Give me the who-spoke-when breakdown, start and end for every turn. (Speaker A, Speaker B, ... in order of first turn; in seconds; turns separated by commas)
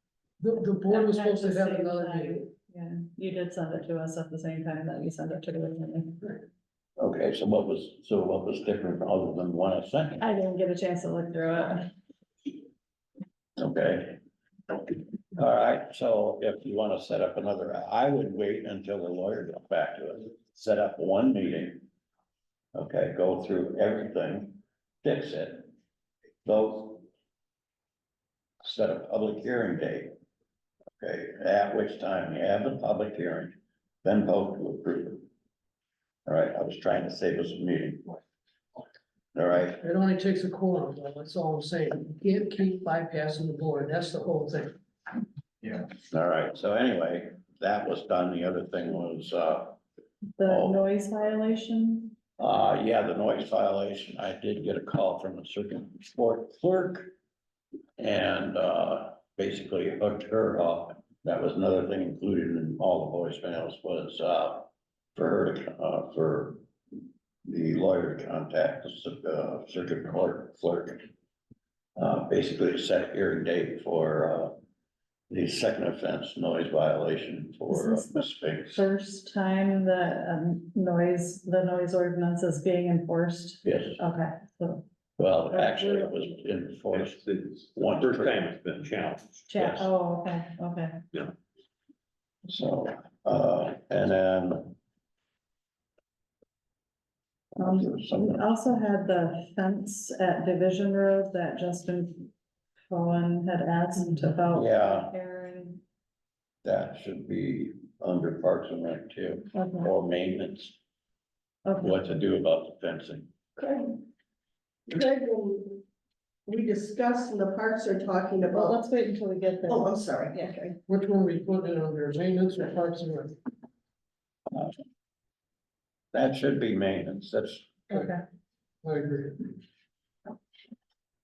Speaker A: 0.4-2.5, Speaker B: 0.9-6.4, Speaker C: 7.0-10.2, Speaker B: 10.2-11.9, Speaker C: 13.6-14.2, Speaker C: 15.4-21.9, Speaker C: 22.8-25.7, Speaker C: 26.4-27.1, Speaker C: 28.6-30.1, Speaker C: 31.0-35.2, Speaker C: 36.3-38.2, Speaker C: 39.4-39.8, Speaker A: 39.8-44.8, Speaker C: 46.1-49.8, Speaker B: 50.4-52.2, Speaker C: 50.5-50.8, Speaker C: 52.4-57.1, Speaker C: 58.0-66.6, Speaker C: 67.5-71.1, Speaker C: 72.0-74.6, Speaker C: 75.3-78.8, Speaker B: 77.7-84.9, Speaker C: 83.7-84.0, Speaker C: 85.2-87.2, Speaker B: 85.5-86.2, Speaker D: 86.9-89.5, Speaker C: 87.7-88.4, Speaker B: 89.5-91.0, Speaker C: 89.6-89.9, Speaker C: 92.5-94.8, Speaker B: 97.6-102.3, Speaker C: 97.6-98.4, Speaker B: 102.9-105.8, Speaker C: 104.5-105.1, Speaker C: 106.6-110.8, Speaker B: 109.5-109.9, Speaker B: 111.7-111.9, Speaker C: 111.8-113.3, Speaker E: 113.6-114.0, Speaker E: 114.9-115.8, Speaker E: 116.5-118.8, Speaker B: 118.5-120.5, Speaker E: 119.6-120.8, Speaker A: 120.9-123.4, Speaker C: 126.1-127.7, Speaker B: 127.9-128.2, Speaker A: 128.8-129.5